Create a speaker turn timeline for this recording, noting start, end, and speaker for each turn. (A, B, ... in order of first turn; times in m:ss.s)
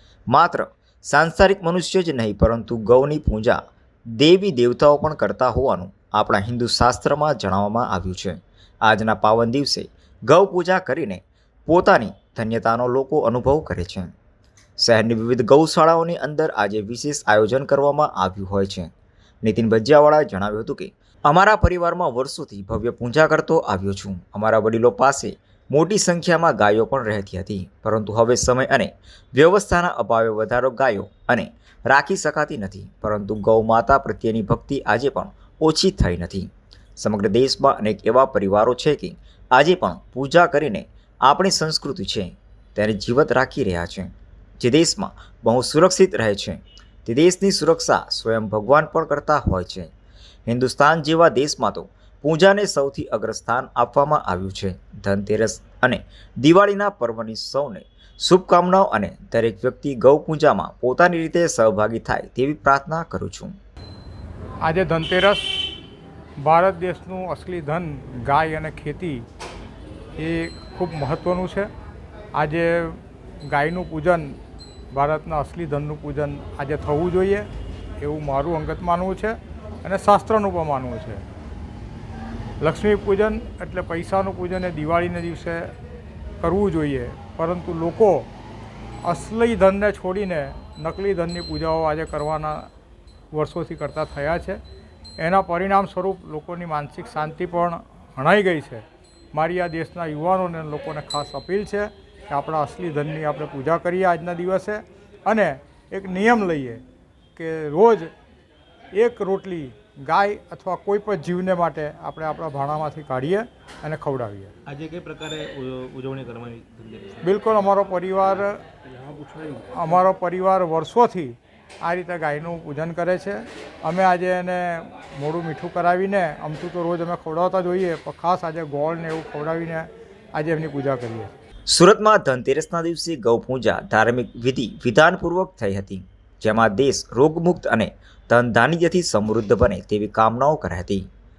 0:00.3-0:03.6 A
0:04.2-0:14.1 A
0:14.8-0:18.9 A
0:19.4-0:49.9 A
0:50.5-1:03.5 A
1:04.6-1:05.7 B
1:06.4-1:09.2 B
1:10.2-1:11.7 B
1:12.4-1:14.4 B
1:14.9-1:17.5 B
1:18.0-1:21.2 B
1:22.6-1:25.7 B
1:26.4-1:28.3 B
1:29.0-1:32.7 B
1:33.3-1:34.6 B
1:35.2-1:46.8 B
1:47.4-1:48.1 B
1:48.9-1:54.5 B
1:54.7-1:57.4 C
1:57.2-1:58.6 B
1:58.8-1:59.9 C
1:59.8-2:11.3 B
2:11.7-2:21.1 A